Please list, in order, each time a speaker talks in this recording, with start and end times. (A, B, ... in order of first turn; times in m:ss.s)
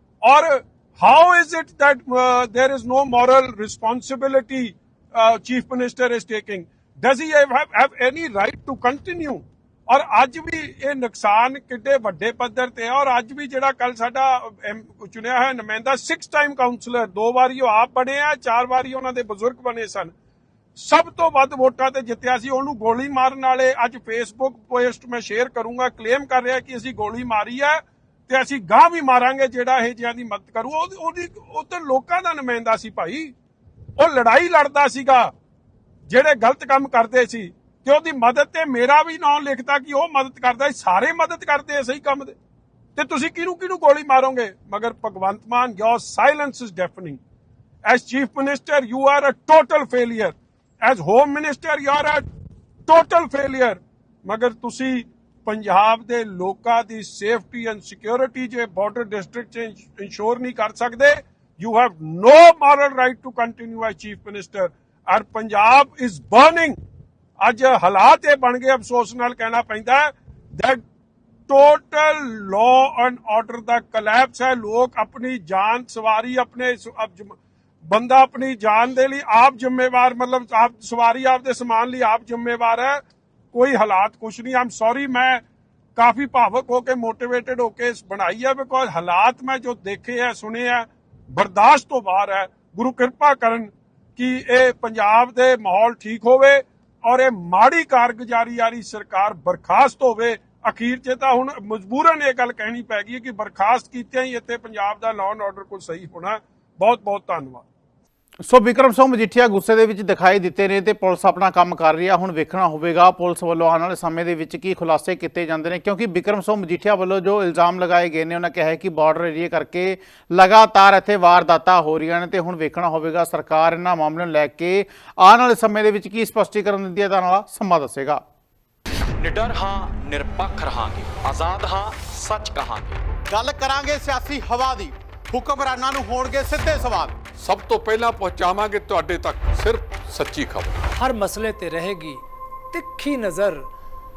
0:00.2-0:20.1 A
0:20.8-0:33.3 A
0:34.0-0:35.3 A
0:36.1-0:42.4 A
0:43.0-0:47.2 A
0:47.8-0:52.2 A
0:52.9-1:06.8 A
1:07.4-1:10.8 A
1:11.5-1:17.4 A
1:17.9-1:23.0 A
1:23.5-1:25.4 A
1:26.0-1:47.6 A
1:48.4-2:08.2 B
2:09.2-2:13.0 C
2:13.3-2:17.1 B
2:17.4-2:20.8 D
2:21.0-2:23.7 E